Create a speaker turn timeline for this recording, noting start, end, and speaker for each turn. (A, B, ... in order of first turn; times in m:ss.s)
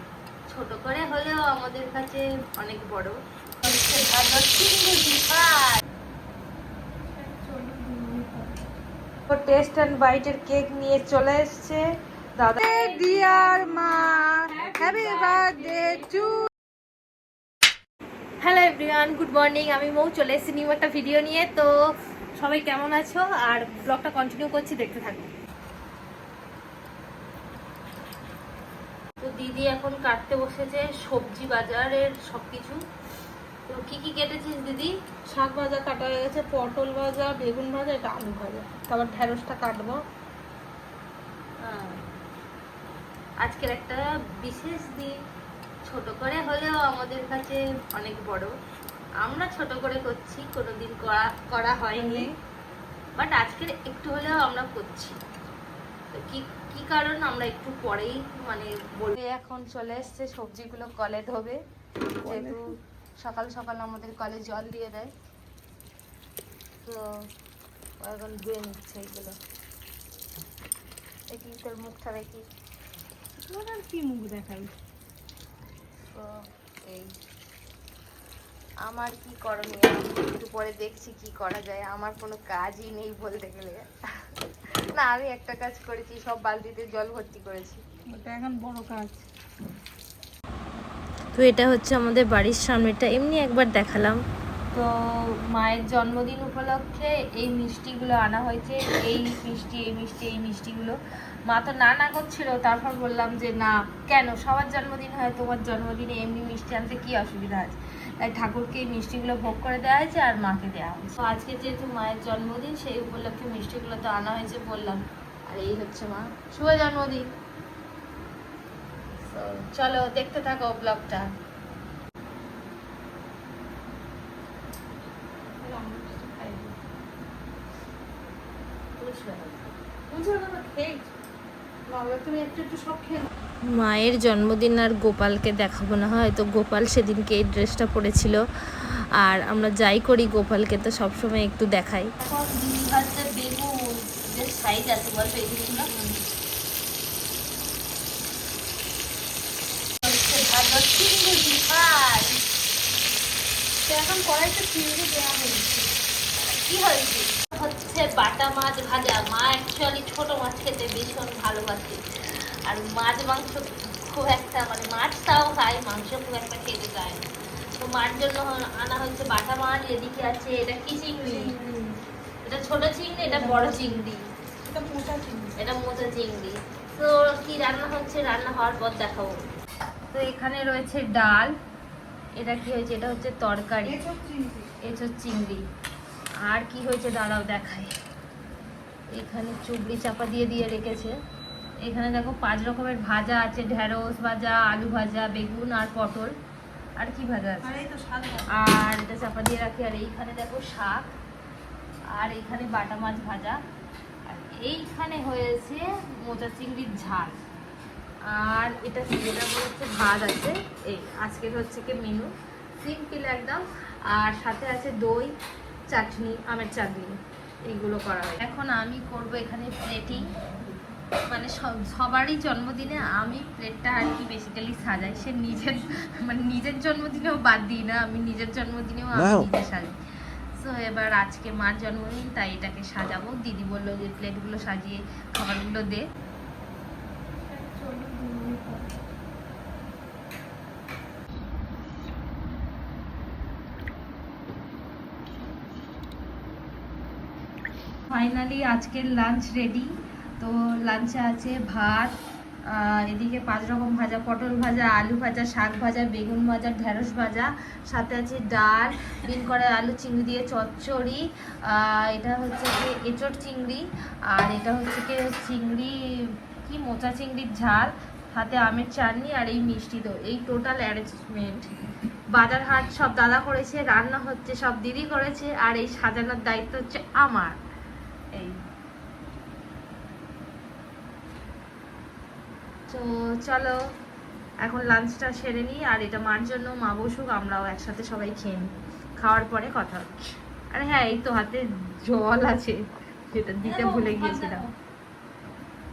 0:00.5-0:05.8 A
0:07.1-0:08.6 B
0:09.3-0:11.8 A
0:12.4-0:16.2 A
0:12.6-0:16.5 B
0:18.4-0:21.7 A
0:22.4-0:25.3 A
0:29.2-0:32.8 A
0:33.7-0:35.0 A
0:35.3-0:40.0 B
0:41.6-0:42.0 A
0:43.4-0:45.2 A
0:45.9-0:48.5 A
0:49.2-0:52.3 A
0:52.0-0:52.3 B
0:53.2-0:55.2 A
0:56.1-1:01.6 A
1:02.2-1:02.7 B
1:02.2-1:05.1 A
1:06.9-1:07.2 A
1:08.0-1:09.4 A
1:11.3-1:12.4 A
1:13.5-1:14.7 B
1:16.1-1:17.1 A
1:18.8-1:23.9 A
1:24.9-1:27.8 A
1:28.1-1:29.2 B
1:31.4-1:34.2 A
1:34.7-1:57.2 A
1:59.1-2:01.3 A
2:05.6-2:06.8 B
2:09.0-2:09.7 A
2:10.1-2:11.1 B
2:11.9-2:13.3 B
2:13.6-2:25.9 A
2:25.8-2:26.2 B
2:30.0-2:32.4 A
2:33.9-2:35.9 B
2:36.4-2:42.0 A
2:42.7-2:47.3 A
2:47.8-2:51.5 A
2:51.2-2:52.0 B
2:52.4-2:54.2 A
2:53.2-2:53.8 B
2:54.6-2:55.5 B
2:55.6-2:59.4 A
3:00.1-3:01.5 A
3:02.4-3:04.0 A
3:03.8-3:04.7 B
3:04.8-3:05.6 A
3:06.4-3:07.9 A
3:09.1-3:11.2 A
3:11.8-3:16.3 A
3:17.0-3:17.8 A
3:17.6-3:18.6 B
3:18.5-3:21.1 A
3:22.1-3:23.6 A
3:24.3-3:27.4 A
3:28.3-3:35.3 A
3:35.9-3:37.2 A
3:37.7-3:40.2 A
3:41.3-3:49.9 A
3:50.6-3:56.0 A
3:57.5-3:58.9 B
4:08.1-4:12.1 A
4:12.7-4:25.9 A
4:26.6-4:31.7 A
4:32.3-4:37.6 A
4:42.9-4:43.8 A
4:44.6-4:48.7 A
4:49.2-4:52.8 A
4:53.3-4:54.7 A
4:53.9-4:54.6 B